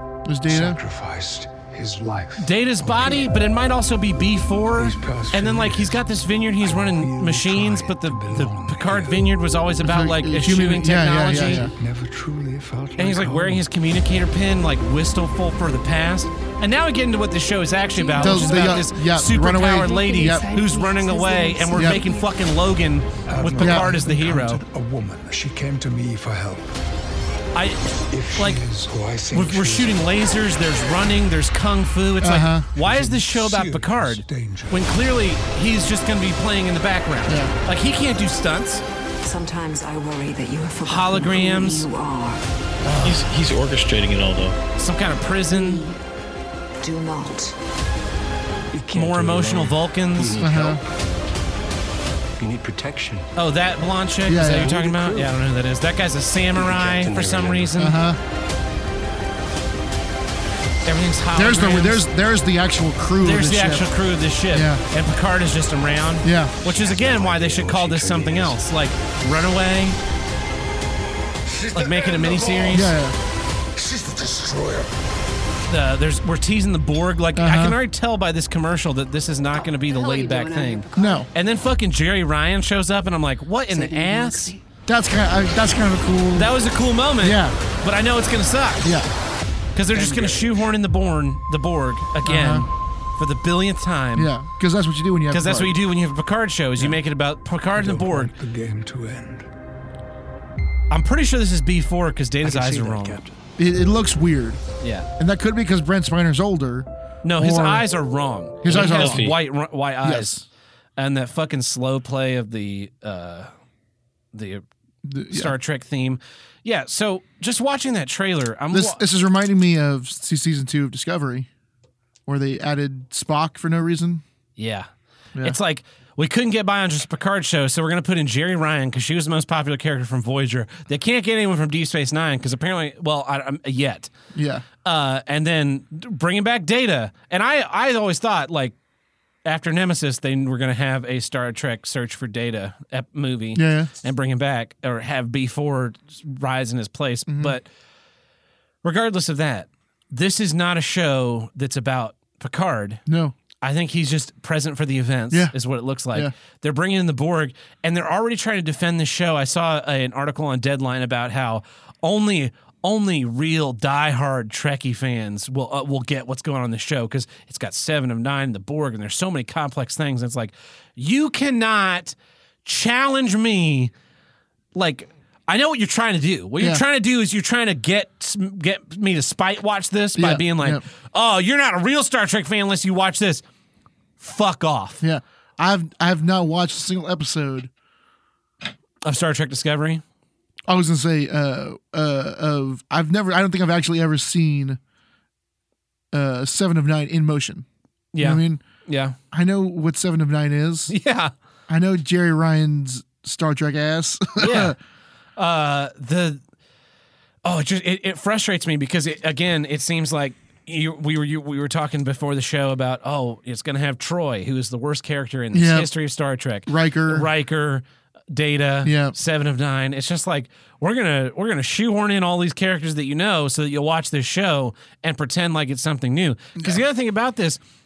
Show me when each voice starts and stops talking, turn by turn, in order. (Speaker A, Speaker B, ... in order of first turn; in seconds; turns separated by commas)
Speaker A: 0.2-0.8, Speaker B: 0.5-3.4, Speaker C: 2.4-11.7, Speaker B: 4.7-9.4, Speaker A: 9.8-11.7, Speaker B: 11.4-13.7, Speaker C: 13.0-24.6, Speaker D: 17.9-18.9, Speaker A: 18.2-20.4, Speaker D: 19.7-22.3, Speaker A: 21.7-22.0, Speaker B: 23.2-26.7, Speaker A: 23.6-24.0, Speaker C: 27.5-28.6, Speaker B: 28.1-30.1, Speaker C: 29.3-38.8, Speaker A: 32.2-32.7, Speaker B: 32.7-35.0, Speaker A: 37.3-37.5, Speaker D: 39.2-42.4, Speaker C: 40.8-41.9, Speaker C: 42.9-43.2, Speaker E: 43.0-44.6, Speaker C: 44.8-45.8, Speaker D: 45.5-46.0, Speaker D: 46.8-47.5, Speaker B: 48.7-50.9, Speaker C: 48.9-50.4, Speaker A: 50.4-50.8, Speaker B: 52.4-53.3, Speaker C: 53.3-58.0, Speaker A: 54.3-54.7, Speaker B: 54.4-55.4, Speaker B: 56.5-57.9, Speaker A: 57.8-58.2, Speaker C: 60.8-62.0, Speaker A: 61.3-63.9, Speaker C: 63.2-70.0, Speaker A: 64.5-64.8, Speaker A: 66.2-66.5, Speaker B: 66.6-68.7, Speaker B: 71.5-72.9, Speaker C: 71.7-72.9, Speaker A: 72.7-73.2, Speaker B: 73.8-74.9, Speaker C: 75.7-84.5, Speaker A: 77.3-77.8, Speaker D: 79.5-81.3, Speaker A: 81.0-81.3, Speaker D: 83.7-84.6, Speaker A: 84.9-86.5, Speaker C: 86.3-88.9, Speaker A: 87.2-87.6, Speaker A: 88.8-89.1, Speaker C: 89.7-94.3, Speaker D: 89.9-90.4, Speaker A: 92.2-92.7, Speaker A: 94.2-95.7, Speaker C: 95.3-98.3, Speaker B: 97.7-99.5, Speaker C: 100.9-103.2, Speaker B: 102.4-103.4, Speaker A: 103.6-104.6, Speaker C: 104.8-105.1, Speaker A: 105.2-107.8, Speaker C: 107.2-110.4, Speaker A: 108.6-109.3, Speaker E: 108.7-109.3, Speaker A: 110.0-110.4, Speaker C: 111.0-113.5, Speaker C: 114.3-114.6, Speaker A: 115.0-115.5, Speaker C: 115.3-119.0, Speaker A: 118.7-121.5, Speaker A: 122.3-124.2, Speaker C: 124.6-124.9, Speaker C: 125.4-134.1, Speaker A: 134.3-134.6, Speaker C: 134.8-138.7, Speaker C: 139.4-147.7, Speaker A: 143.5-143.9, Speaker A: 147.3-147.6, Speaker C: 148.8-153.0, Speaker A: 153.1-153.3, Speaker C: 153.6-173.9, Speaker C: 174.7-183.4, Speaker A: 180.2-180.8, Speaker C: 184.2-185.0, Speaker A: 185.0-187.7, Speaker C: 189.0-190.0, Speaker A: 190.7-194.8, Speaker A: 196.1-197.7, Speaker C: 198.1-199.2, Speaker A: 198.2-198.6, Speaker A: 199.3-200.9, Speaker C: 200.9-201.3, Speaker A: 201.7-204.8, Speaker C: 204.4-204.8, Speaker C: 205.4-206.4, Speaker C: 207.4-227.6, Speaker A: 215.5-215.9, Speaker A: 216.7-217.3, Speaker A: 218.8-219.1